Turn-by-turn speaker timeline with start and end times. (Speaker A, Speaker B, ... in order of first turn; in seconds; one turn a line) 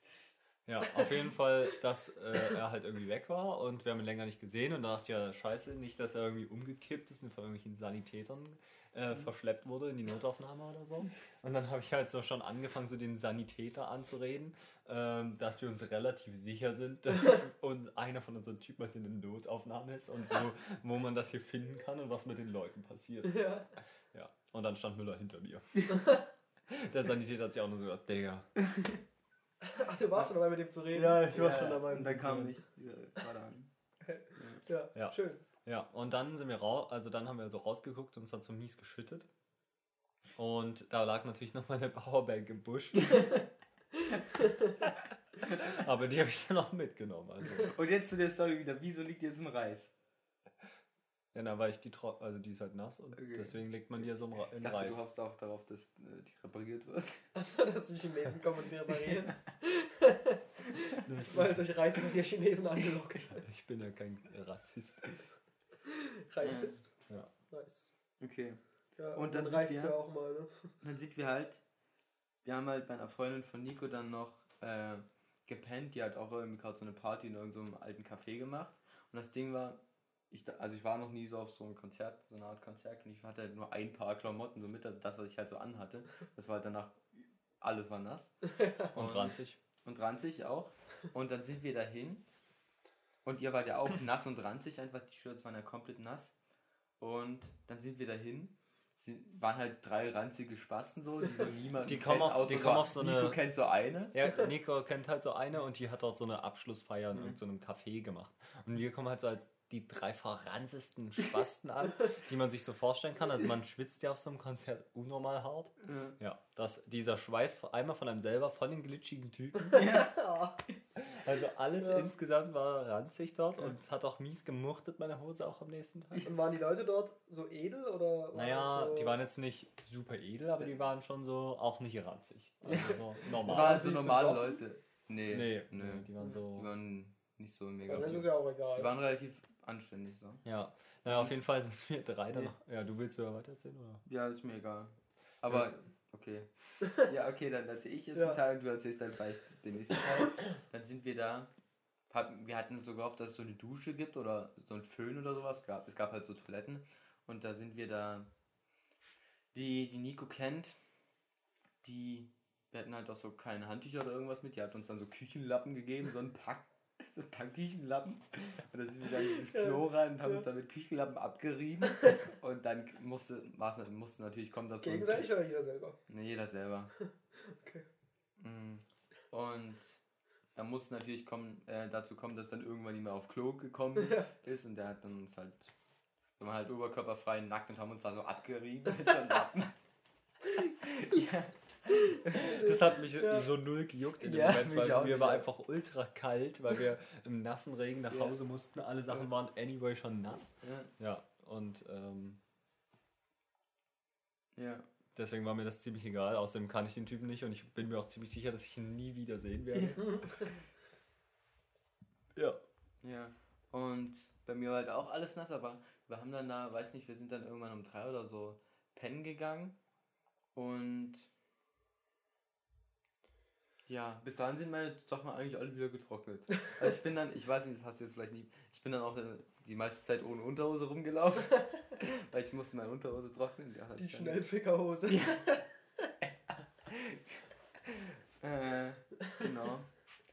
Speaker A: 0.7-23.5
Speaker B: 23.2-23.7
Speaker A: 24.1-26.1
Speaker A: 26.7-28.5
Speaker C: 28.6-29.0
Speaker B: 29.6-32.5
Speaker C: 30.9-33.7
Speaker B: 34.1-35.4
Speaker C: 34.3-34.6
Speaker A: 34.9-39.3
Speaker A: 40.4-43.4
Speaker A: 44.8-47.7
Speaker C: 47.7-49.9
Speaker A: 51.3-55.0
Speaker C: 53.1-53.5
Speaker C: 54.5-57.3
Speaker B: 57.3-63.5
Speaker C: 58.9-59.4
Speaker A: 61.0-61.6
Speaker A: 63.4-65.1
Speaker B: 65.9-67.9
Speaker C: 66.4-66.8
Speaker C: 68.2-68.6
Speaker B: 69.0-70.7
Speaker C: 69.1-70.0
Speaker C: 70.8-71.6
Speaker C: 72.4-92.2
Speaker A: 88.9-89.6
Speaker C: 93.2-96.3
Speaker C: 97.0-104.1
Speaker A: 101.8-103.4
Speaker A: 104.1-119.8
Speaker C: 115.8-116.2
Speaker C: 119.7-120.1
Speaker B: 119.7-120.6
Speaker A: 121.0-126.3
Speaker B: 121.8-122.1
Speaker B: 126.2-129.2
Speaker A: 128.3-134.0
Speaker C: 132.7-140.4
Speaker B: 132.7-134.6
Speaker A: 135.3-136.7
Speaker B: 137.9-138.9
Speaker A: 140.4-144.0
Speaker C: 141.1-141.3
Speaker C: 144.1-151.5
Speaker B: 150.1-150.3
Speaker C: 152.1-158.3
Speaker C: 159.5-160.8
Speaker C: 161.8-175.3
Speaker B: 169.5-170.4
Speaker B: 174.8-176.0
Speaker C: 176.1-176.9
Speaker B: 177.0-177.9
Speaker C: 178.4-180.0
Speaker C: 180.6-185.7
Speaker B: 184.0-184.2
Speaker C: 186.4-189.7
Speaker C: 190.8-192.4
Speaker B: 192.1-193.5
Speaker A: 192.3-202.4
Speaker C: 194.2-195.5
Speaker C: 198.1-198.3
Speaker C: 200.6-200.9
Speaker C: 204.6-204.9
Speaker A: 205.1-210.4
Speaker C: 209.7-210.0
Speaker B: 210.0-210.3
Speaker C: 213.0-219.8
Speaker C: 220.5-221.3
Speaker C: 223.9-234.4
Speaker B: 234.0-235.6
Speaker C: 235.1-235.4
Speaker C: 236.9-239.9